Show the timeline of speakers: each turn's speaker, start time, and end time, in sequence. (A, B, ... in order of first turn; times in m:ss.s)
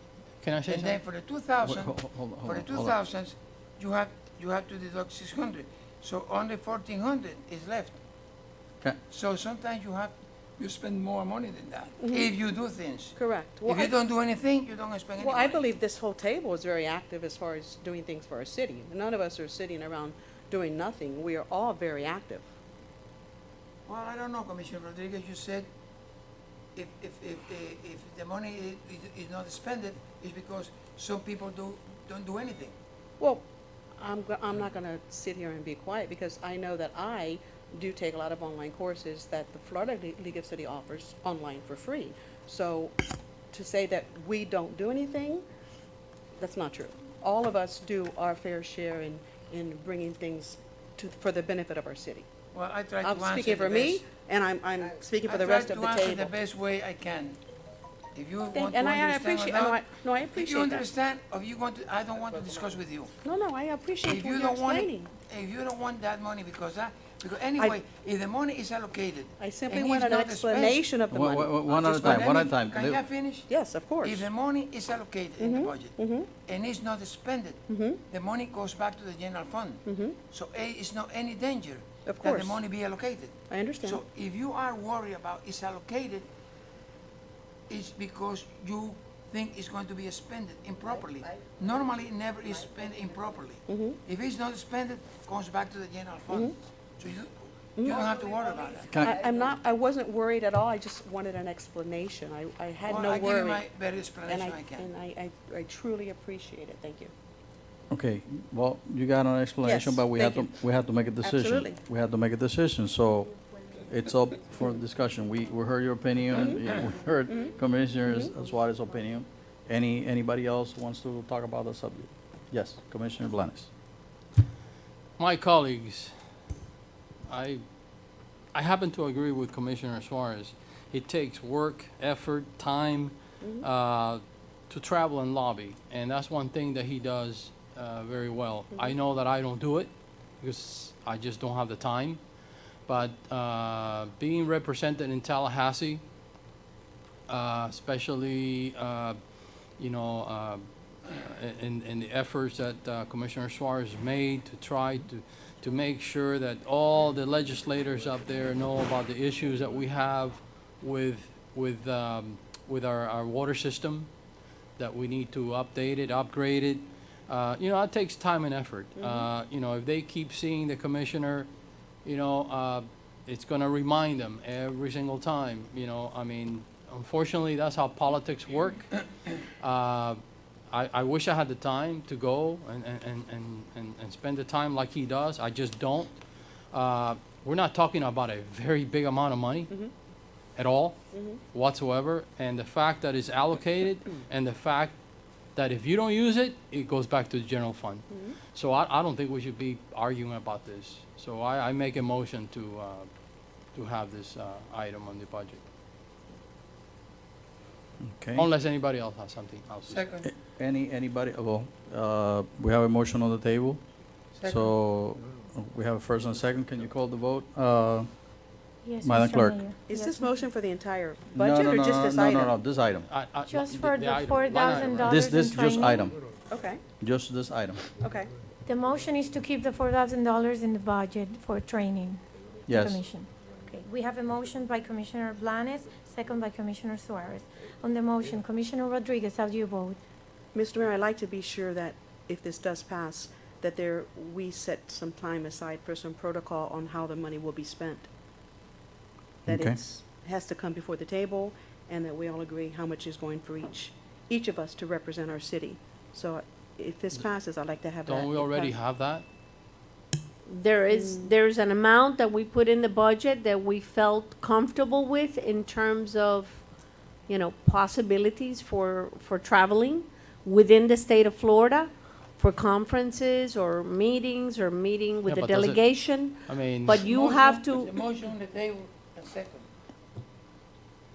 0:00.4-0:01.0 A
0:00.6-0:08.0 B
0:01.6-0:02.9 C
0:09.1-0:15.6 B
0:12.0-0:12.3 D
0:13.1-0:14.0 D
0:15.2-0:22.5 D
0:23.8-0:25.7 B
0:26.7-0:32.7 B
0:33.2-0:33.4 D
0:34.0-0:45.4 D
0:46.4-0:52.3 D
0:52.5-0:54.0 B
0:53.0-0:56.4 D
0:55.2-0:57.4 B
0:58.1-1:03.1 B
0:58.5-1:00.8 D
1:03.2-1:05.1 D
1:04.0-1:10.8 B
1:07.6-1:07.8 D
1:09.4-1:12.3 D
1:11.1-1:13.0 C
1:11.6-1:26.3 B
1:13.5-1:14.3 D
1:15.4-1:16.3 D
1:17.7-1:18.0 D
1:19.8-1:20.2 D
1:22.0-1:22.6 D
1:23.5-1:24.0 D
1:27.7-1:39.0 B
1:33.7-1:34.0 D
1:36.3-1:36.6 D
1:37.8-1:38.1 D
1:39.0-1:43.7 D
1:42.8-1:44.9 B
1:44.2-1:47.1 D
1:47.9-1:53.3 C
1:49.6-1:50.6 D
1:51.2-1:51.8 D
1:53.9-2:03.7 C
1:56.3-1:56.6 D
1:58.0-1:58.3 D
2:05.2-2:06.1 A
2:07.3-2:07.6 A
2:08.5-2:22.2 A
2:22.9-2:26.0 A
2:27.3-2:29.2 A
2:29.8-2:44.1 A
2:44.8-2:51.5 A
2:49.0-2:49.3 D
2:52.0-2:59.0 A
2:59.6-3:06.2 A
3:06.7-3:09.7 A
3:10.6-3:11.0 A
3:11.1-3:11.4 D
3:11.5-3:14.9 A
3:15.5-3:23.1 A
3:18.1-3:18.4 D
3:23.7-3:25.6 A
3:28.0-3:28.5 C
3:28.4-3:30.0 A
3:29.9-3:30.3 B
3:30.2-3:33.8 C
3:34.4-3:34.7 B
3:34.4-3:38.1 C
3:38.8-3:40.4 E
3:39.0-3:39.6 C
3:39.8-3:42.6 D
3:41.3-3:43.1 C
3:43.1-3:45.2 A
3:43.5-3:46.1 E
3:45.0-3:46.2 C
3:46.5-3:46.8 D
3:47.0-3:47.8 C
3:48.0-3:48.3 D
3:48.6-4:00.0 E
3:52.7-3:53.0 C
4:00.5-4:08.1 D
4:09.5-4:09.8 C
4:09.5-4:18.7 D
4:18.0-4:19.2 A
4:20.4-4:26.6 F
4:20.9-4:21.3 D
4:27.3-4:38.0 F
4:35.2-4:37.0 A
4:37.0-4:39.7 B